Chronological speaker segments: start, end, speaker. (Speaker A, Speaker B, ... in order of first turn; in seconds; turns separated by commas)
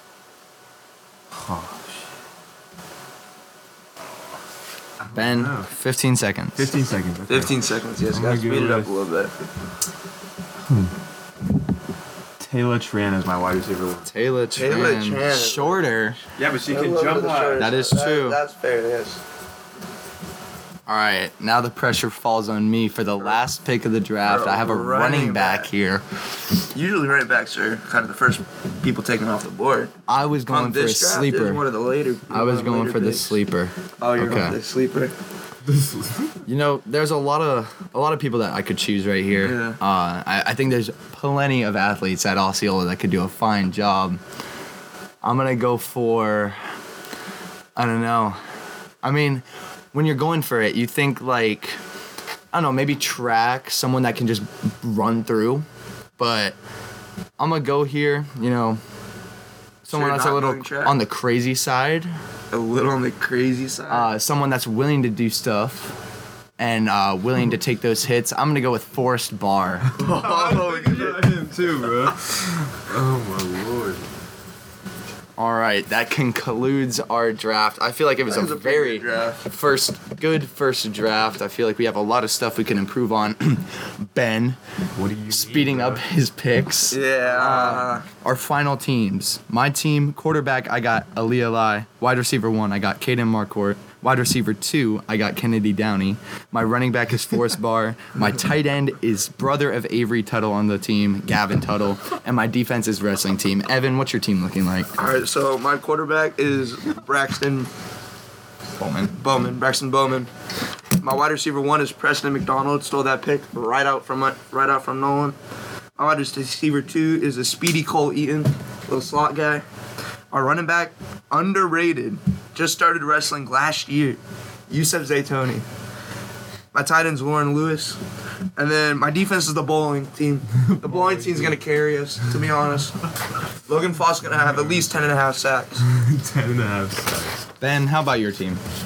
Speaker A: 1.3-2.1, Speaker A: 5.0-5.7, Speaker B: 5.1-6.7, Speaker A: 6.5-8.9, Speaker C: 7.3-9.3, Speaker A: 10.6-10.9, Speaker A: 12.4-14.1, Speaker B: 14.0-16.2, Speaker C: 14.6-16.0, Speaker A: 16.4-17.7, Speaker C: 16.7-19.2, Speaker B: 17.6-18.4, Speaker B: 20.9-26.0, Speaker C: 24.2-25.7, Speaker C: 26.7-29.9, Speaker B: 30.1-31.6, Speaker C: 30.5-33.4, Speaker B: 32.3-34.5, Speaker C: 34.0-35.1, Speaker A: 35.6-36.4, Speaker B: 36.5-44.2, Speaker C: 39.4-39.8, Speaker B: 45.2-46.6, Speaker B: 47.8-48.4, Speaker B: 49.0-51.8, Speaker B: 52.5-55.6, Speaker B: 56.2-56.5, Speaker B: 57.4-58.8, Speaker B: 59.8-62.1, Speaker C: 59.9-61.0, Speaker C: 62.5-64.1, Speaker B: 63.9-66.0, Speaker B: 66.6-69.9, Speaker A: 69.9-74.1, Speaker C: 69.9-71.2, Speaker B: 75.4-84.6, Speaker C: 78.3-79.4, Speaker A: 85.0-86.0, Speaker B: 85.3-104.9, Speaker C: 86.9-88.1, Speaker A: 87.2-87.8, Speaker C: 104.9-107.7, Speaker B: 108.8-109.1, Speaker C: 109.1-110.3, Speaker C: 111.0-115.3, Speaker C: 116.0-119.6, Speaker C: 120.3-125.7, Speaker C: 126.7-128.0, Speaker C: 128.6-132.9, Speaker A: 130.6-131.6, Speaker C: 133.7-135.8, Speaker A: 134.3-134.9, Speaker A: 135.8-137.4, Speaker B: 137.6-138.6